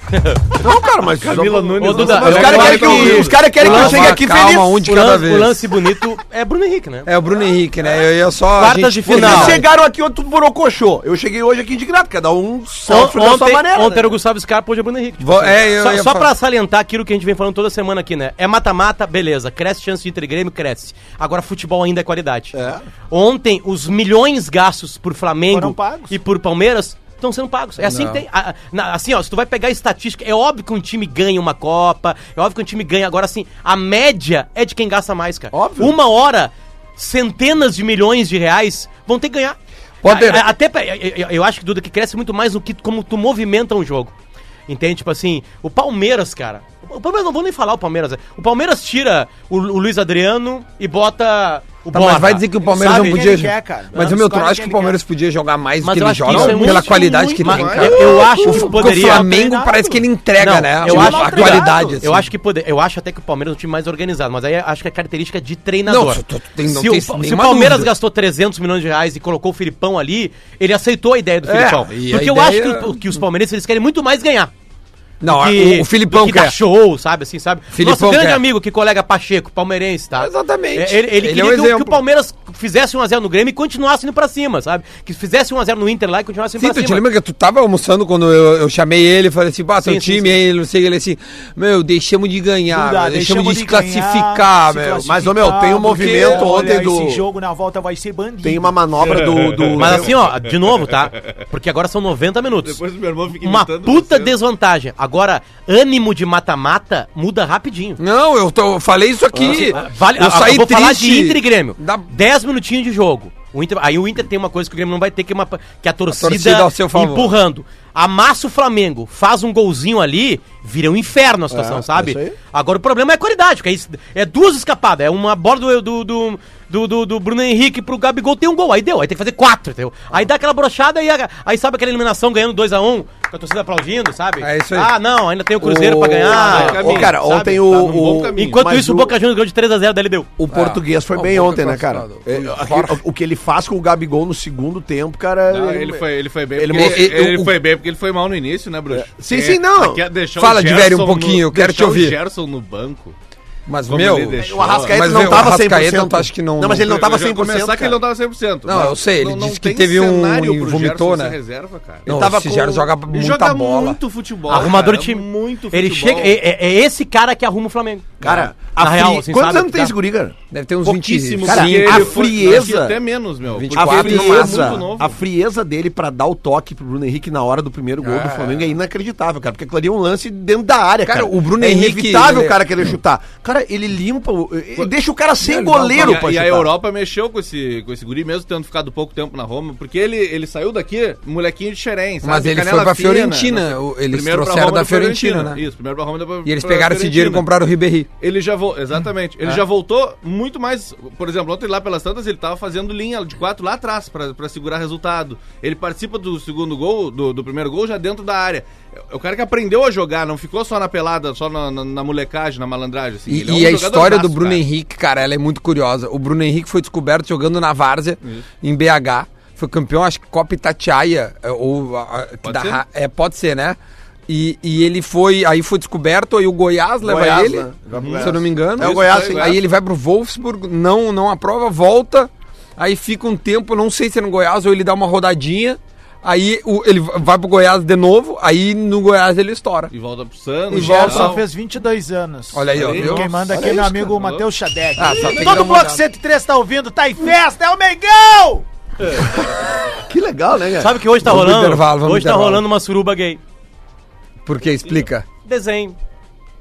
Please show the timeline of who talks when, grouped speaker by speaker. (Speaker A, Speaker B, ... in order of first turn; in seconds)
Speaker A: 0.6-4.8, 9.1-14.2, 22.5-22.8, 35.5-35.9, 95.0-97.2, 98.4-100.2, 109.3-109.7, 121.5-122.3, 136.4-139.1, 140.4-147.2, 148.9-150.0, 154.4-158.0, 162.1-162.9, 168.2-170.3, 171.4-173.1, 173.7-186.7, 227.0-229.6, 243.5-244.1, 250.0-250.9
Speaker B: 1.2-3.4, 56.3-58.2, 99.0-101.3, 102.6-104.3, 136.3-138.7, 145.5-153.2, 153.9-155.3, 156.8-162.3, 163.1-166.4, 170.8-175.2, 185.9-197.5, 198.2-214.6, 222.4-222.8, 227.9-229.6, 239.9-241.4, 242.7-244.4
Speaker C: 1.8-4.2, 4.8-7.1, 8.6-9.6, 12.8-22.5, 23.1-44.1, 44.7-53.3, 55.8-59.3, 60.4-74.5, 75.2-87.0, 89.8-90.4, 99.7-102.8, 103.4-108.0, 109.5-137.5, 138.3-140.3, 164.5-169.9, 250.8-253.4, 255.4-256.0
Speaker D: 2.3-5.6, 7.0-9.7, 15.2-16.3, 27.8-28.2, 40.0-40.5, 51.9-62.3, 65.8-67.9, 71.4-73.2, 75.2-76.6, 77.7-78.4, 80.2-82.0, 86.6-96.5, 108.0-112.1, 116.1-117.3, 134.4-134.9, 135.6-136.6, 140.4-143.0, 146.7-147.5, 150.3-152.2, 153.7-156.9, 158.6-161.4, 162.1-164.0, 168.2-168.5, 170.5-172.2, 173.5-174.8, 178.0-178.7, 181.0-182.6, 185.4-186.3, 192.2-195.6, 196.4-198.1, 213.3-239.9, 240.7-241.4, 242.5-243.3, 245.0-246.0, 251.2-252.6, 254.4-255.2
Speaker E: 25.5-26.1, 52.6-55.0, 58.1-60.0, 60.8-62.0, 92.7-98.8, 240.7-248.7